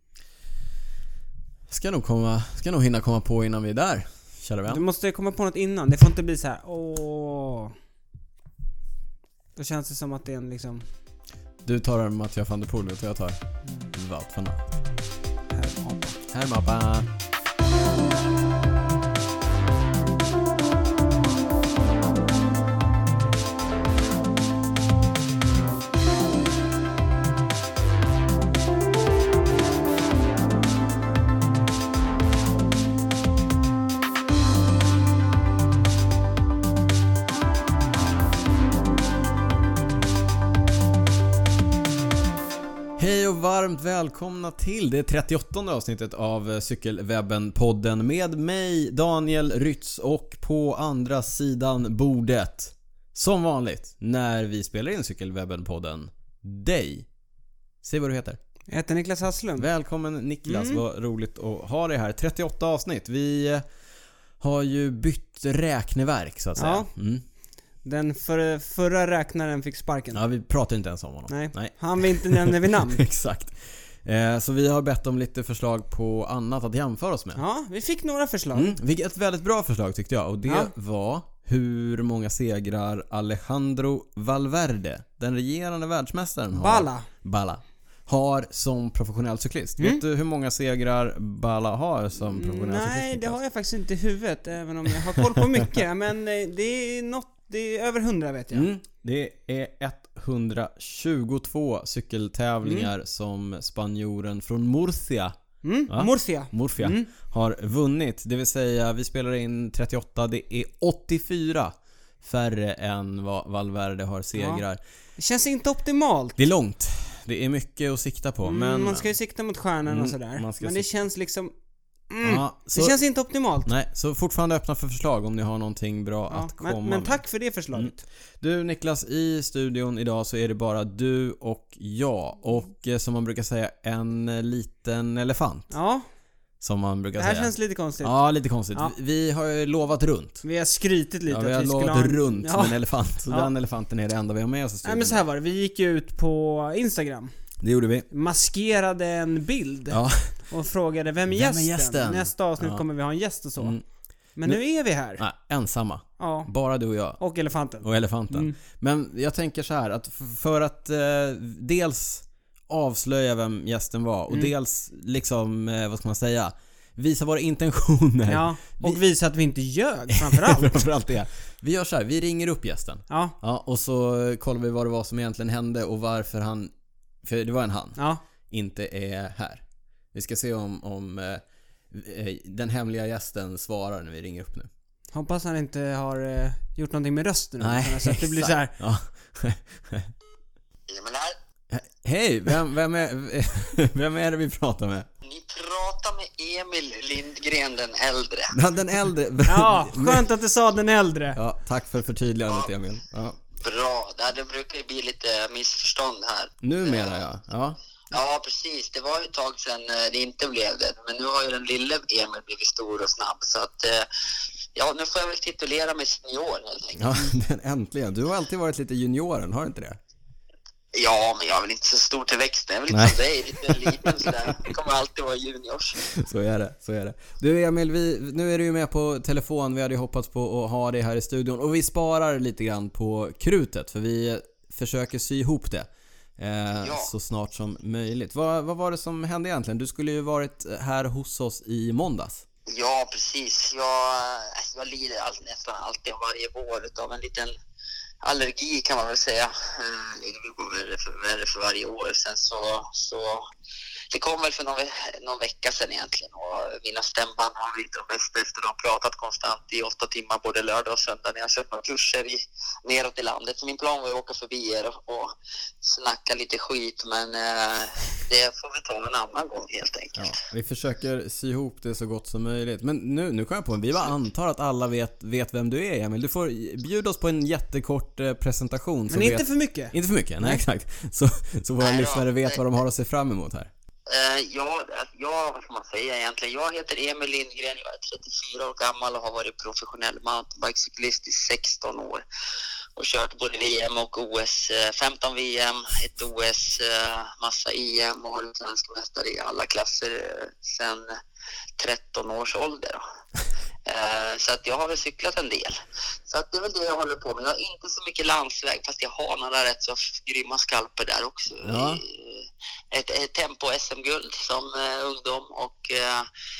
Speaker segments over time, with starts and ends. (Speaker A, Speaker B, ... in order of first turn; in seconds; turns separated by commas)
Speaker A: 1.7-4.8, Speaker B: 4.7-7.7, Speaker B: 9.6-10.8, Speaker A: 11.6-13.4, Speaker A: 13.9-14.6, Speaker B: 15.5-16.2, Speaker A: 16.3-17.1, Speaker A: 43.0-57.1, Speaker A: 57.8-58.4, Speaker B: 58.7-59.7, Speaker A: 59.6-63.6, Speaker B: 60.4-60.8, Speaker A: 64.4-67.2, Speaker B: 66.6-66.9, Speaker B: 67.8-70.2, Speaker A: 70.1-77.4, Speaker B: 71.3-73.0, Speaker B: 77.3-78.8, Speaker A: 78.5-93.4, Speaker B: 86.5-87.1, Speaker B: 92.3-98.7, Speaker A: 98.5-105.3, Speaker B: 102.6-102.9, Speaker B: 105.6-107.1, Speaker A: 105.9-114.8, Speaker B: 114.3-114.6, Speaker B: 115.2-116.4, Speaker A: 116.4-119.1, Speaker B: 118.4-121.5, Speaker A: 119.9-120.9, Speaker B: 122.1-123.7, Speaker A: 122.2-123.0, Speaker A: 123.7-127.2, Speaker B: 126.3-128.0, Speaker A: 127.7-135.7, Speaker B: 135.7-136.0, Speaker A: 136.6-140.4, Speaker B: 137.2-138.1, Speaker B: 140.4-143.5, Speaker A: 141.3-145.2, Speaker B: 144.8-147.3, Speaker A: 147.6-148.1, Speaker B: 148.1-153.8, Speaker A: 149.9-150.3, Speaker A: 151.3-152.8, Speaker B: 154.4-155.2, Speaker A: 155.2-157.2, Speaker B: 156.2-156.5, Speaker B: 157.2-158.6, Speaker A: 157.8-169.0, Speaker B: 168.3-170.8, Speaker A: 170.1-176.7, Speaker B: 173.1-173.3, Speaker A: 177.2-178.0, Speaker B: 177.9-178.2, Speaker A: 178.5-179.6, Speaker A: 180.1-184.7, Speaker B: 185.1-188.7, Speaker A: 187.6-190.1, Speaker C: 190.9-191.4, Speaker A: 191.7-195.1, Speaker C: 195.2-198.5, Speaker A: 198.5-200.3, Speaker B: 199.4-201.4, Speaker A: 201.3-203.4, Speaker C: 203.6-207.2, Speaker A: 206.6-207.8, Speaker C: 208.1-214.1, Speaker C: 214.7-217.2, Speaker A: 216.9-220.0, Speaker C: 220.9-226.1, Speaker A: 222.9-224.7, Speaker A: 226.1-242.4, Speaker C: 236.8-237.1, Speaker C: 242.7-247.5, Speaker C: 248.2-253.5, Speaker C: 254.1-270.4, Speaker A: 270.1-283.7, Speaker B: 279.1-280.6, Speaker C: 281.8-282.6, Speaker C: 284.1-292.2, Speaker C: 292.9-301.1, Speaker C: 301.8-303.0, Speaker C: 303.9-316.3, Speaker A: 311.6-312.0